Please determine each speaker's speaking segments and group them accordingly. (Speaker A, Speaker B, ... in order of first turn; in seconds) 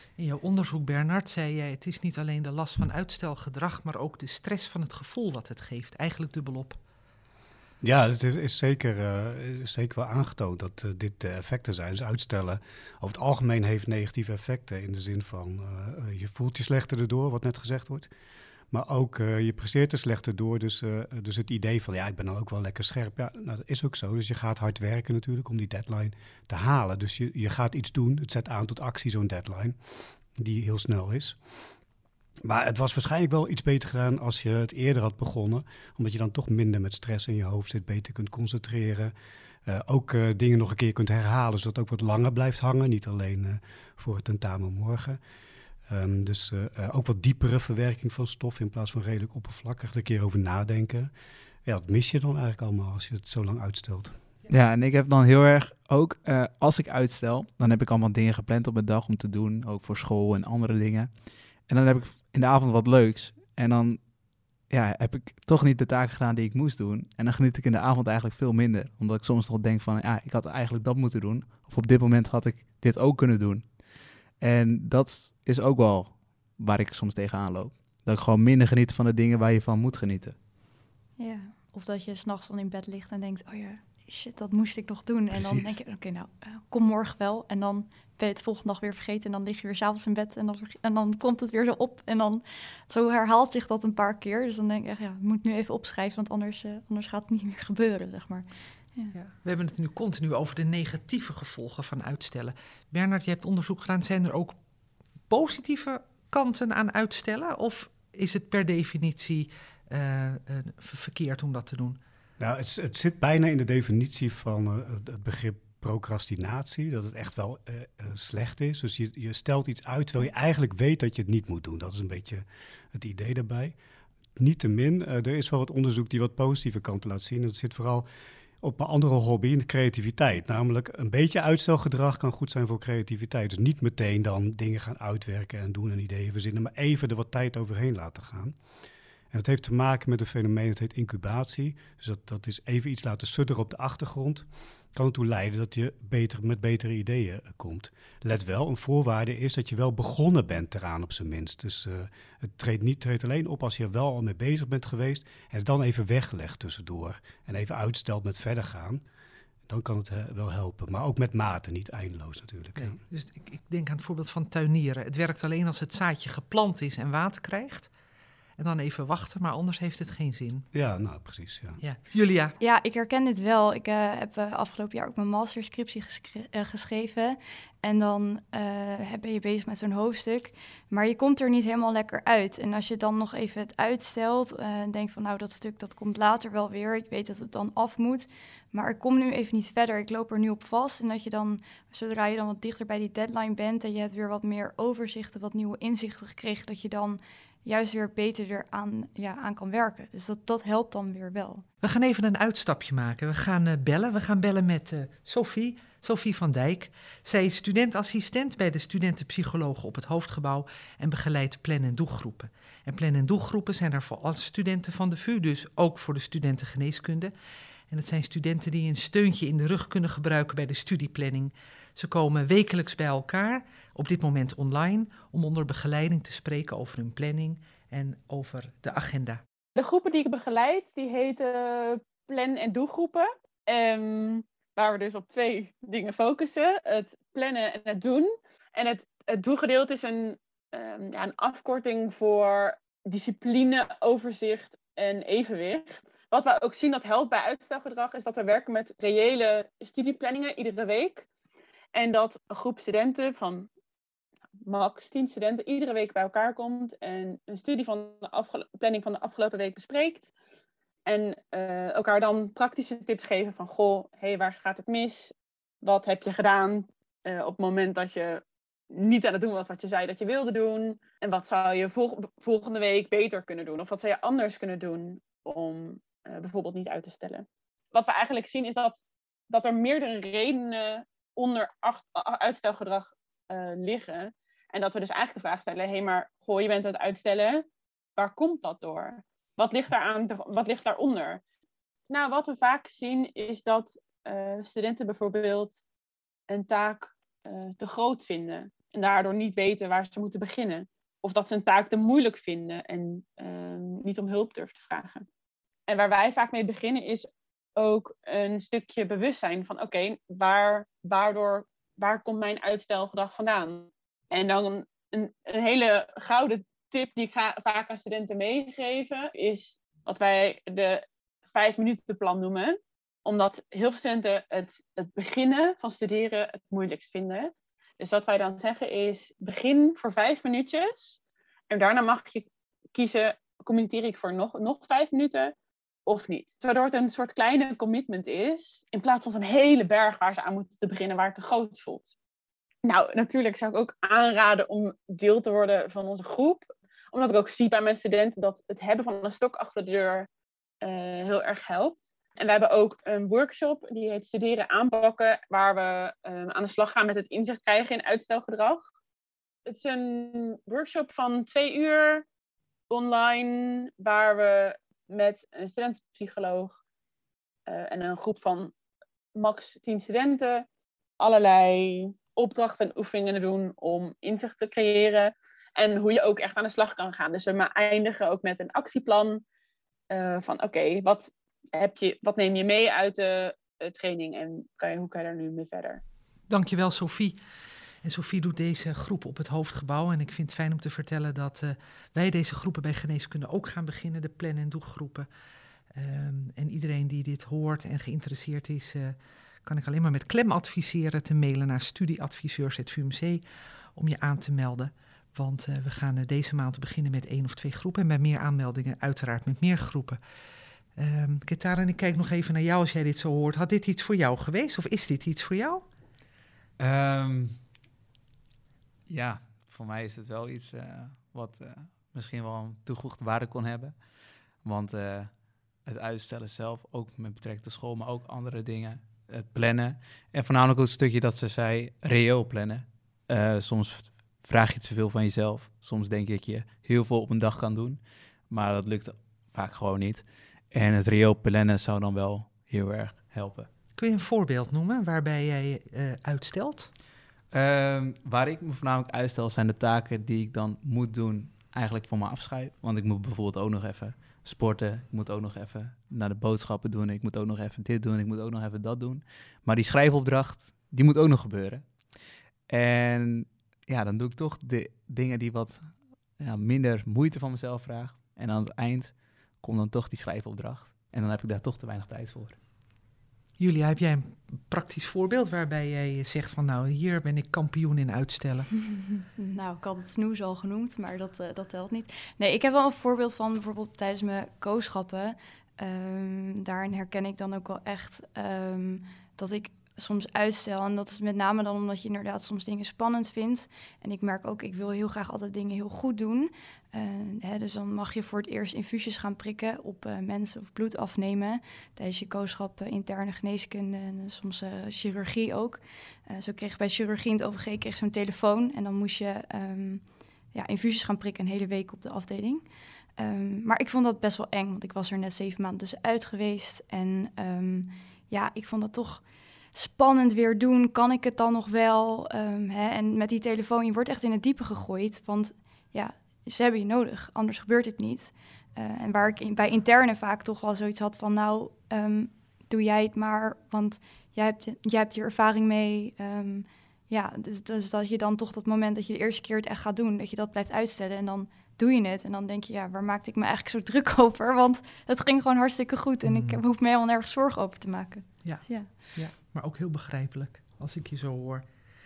Speaker A: 0.2-6.8, 99.1-104.6, 105.3-112.0, 162.8-167.9, 168.6-170.7, 171.8-172.6, 201.8-217.3, 217.9-229.4, 386.5-387.4, 388.0-395.3, 395.9-403.4, 403.9-410.2, 411.0-415.9, 444.0-446.9, 473.6-478.7, 546.2-546.6, 548.4-551.6
Speaker B: 7.8-18.1, 18.7-29.8, 30.4-31.4, 32.4-39.1, 39.7-45.2, 45.9-51.1, 51.6-54.2, 112.4-123.8, 124.4-128.1, 128.6-138.6, 139.3-159.0, 159.7-163.0, 170.7-171.8
Speaker C: 54.5-61.1, 61.7-73.8, 74.4-80.3, 85.3-85.8, 416.8-417.6, 419.1-424.0, 424.6-425.3, 425.9-443.7, 447.5-461.9, 462.7-472.6
Speaker D: 81.2-99.1, 172.6-201.7, 479.3-512.6, 513.2-519.2, 519.7-548.9
Speaker E: 229.8-251.3, 251.9-253.7, 254.7-260.3, 261.1-287.6, 288.2-291.4, 292.1-295.8, 296.5-305.2, 305.9-331.2, 331.7-335.6, 336.1-342.1, 342.8-350.3, 350.8-358.8, 359.7-362.2, 362.9-366.8, 367.7-368.7, 369.4-370.7, 371.2-379.4, 380.1-386.0